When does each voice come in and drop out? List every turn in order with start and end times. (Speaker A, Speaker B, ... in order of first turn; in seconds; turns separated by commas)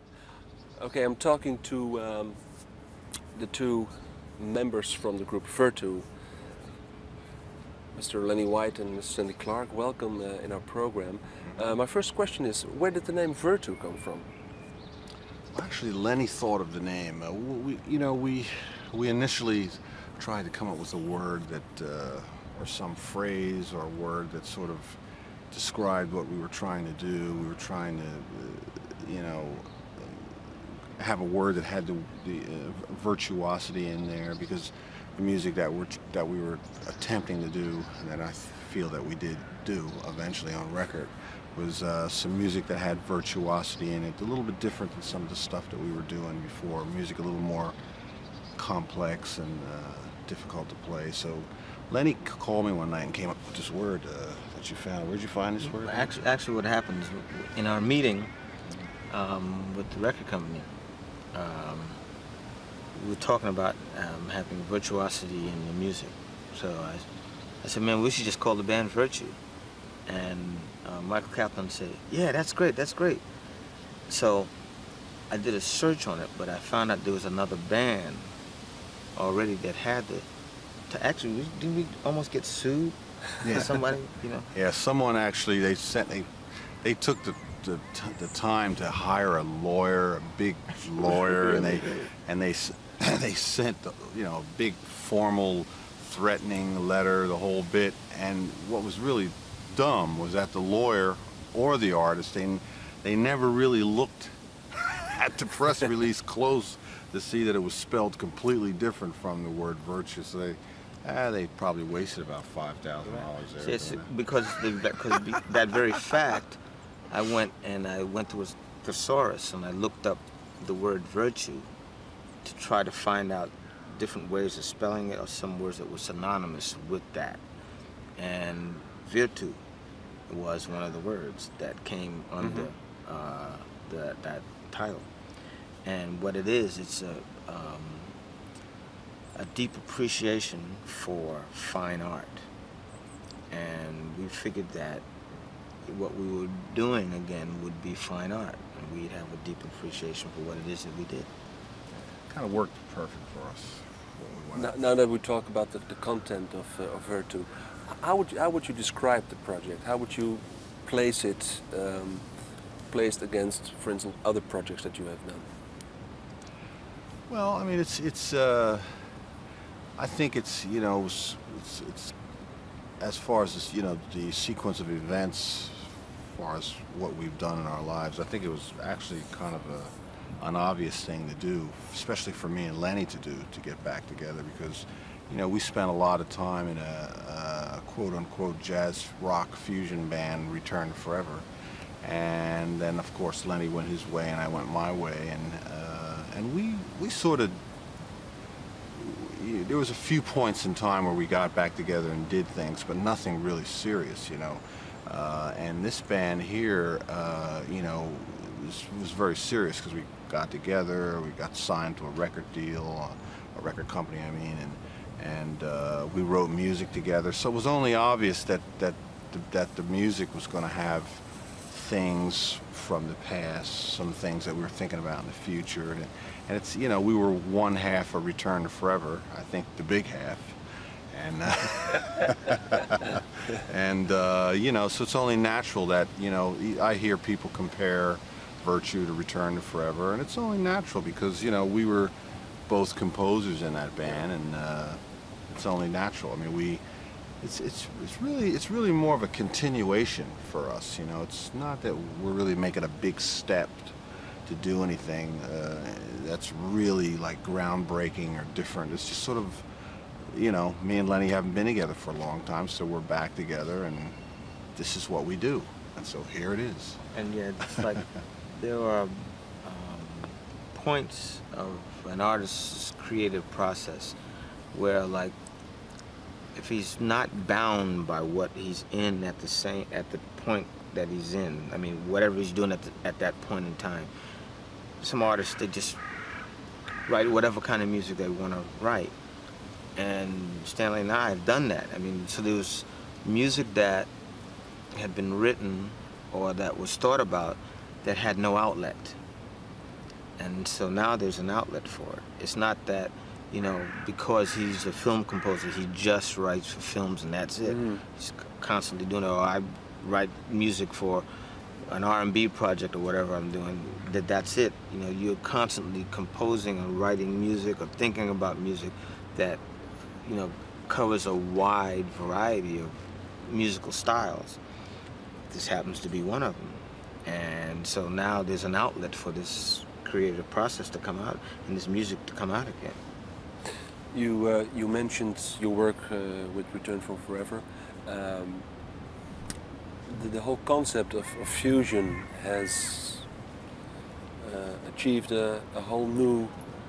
Speaker A: 0.8-2.4, Speaker A: 3.4-6.1, Speaker A: 7.9-14.3, Speaker B: 15.5-25.0, Speaker B: 25.5-30.3, Speaker B: 31.0-47.8, Speaker B: 48.6-56.1, Speaker C: 55.6-58.3, Speaker C: 59.1-60.7, Speaker C: 61.3-62.0, Speaker C: 62.9-67.1, Speaker C: 67.6-69.4, Speaker C: 70.1-73.2, Speaker C: 74.1-74.5, Speaker C: 75.3-78.3, Speaker C: 79.2-80.3, Speaker C: 80.9-84.5, Speaker B: 84.5-86.3, Speaker B: 86.8-114.1, Speaker C: 113.6-116.6, Speaker C: 117.1-121.7, Speaker C: 122.4-127.4, Speaker C: 128.2-129.6, Speaker C: 130.3-135.1, Speaker A: 132.4-132.7, Speaker C: 135.8-138.2, Speaker C: 139.4-142.5, Speaker C: 143.5-145.1, Speaker C: 145.8-151.3, Speaker B: 152.2-154.8, Speaker A: 154.5-162.3, Speaker A: 162.9-165.5, Speaker B: 167.3-169.0, Speaker B: 170.0-172.2, Speaker B: 173.0-191.5, Speaker B: 192.0-197.6, Speaker B: 198.9-230.6, Speaker B: 231.1-242.1, Speaker B: 242.7-246.8, Speaker B: 247.4-253.9, Speaker B: 254.5-259.7, Speaker B: 260.2-264.2, Speaker B: 264.8-267.1, Speaker C: 267.1-274.2, Speaker C: 274.7-275.4, Speaker C: 276.6-284.1, Speaker C: 285.0-286.0, Speaker C: 287.1-289.1, Speaker C: 290.0-294.1, Speaker C: 294.9-299.2, Speaker C: 300.4-311.2, Speaker A: 307.6-308.0, Speaker C: 311.9-319.6, Speaker C: 320.2-324.6, Speaker C: 325.5-333.0, Speaker A: 334.1-338.7, Speaker A: 340.1-343.3, Speaker A: 344.4-346.6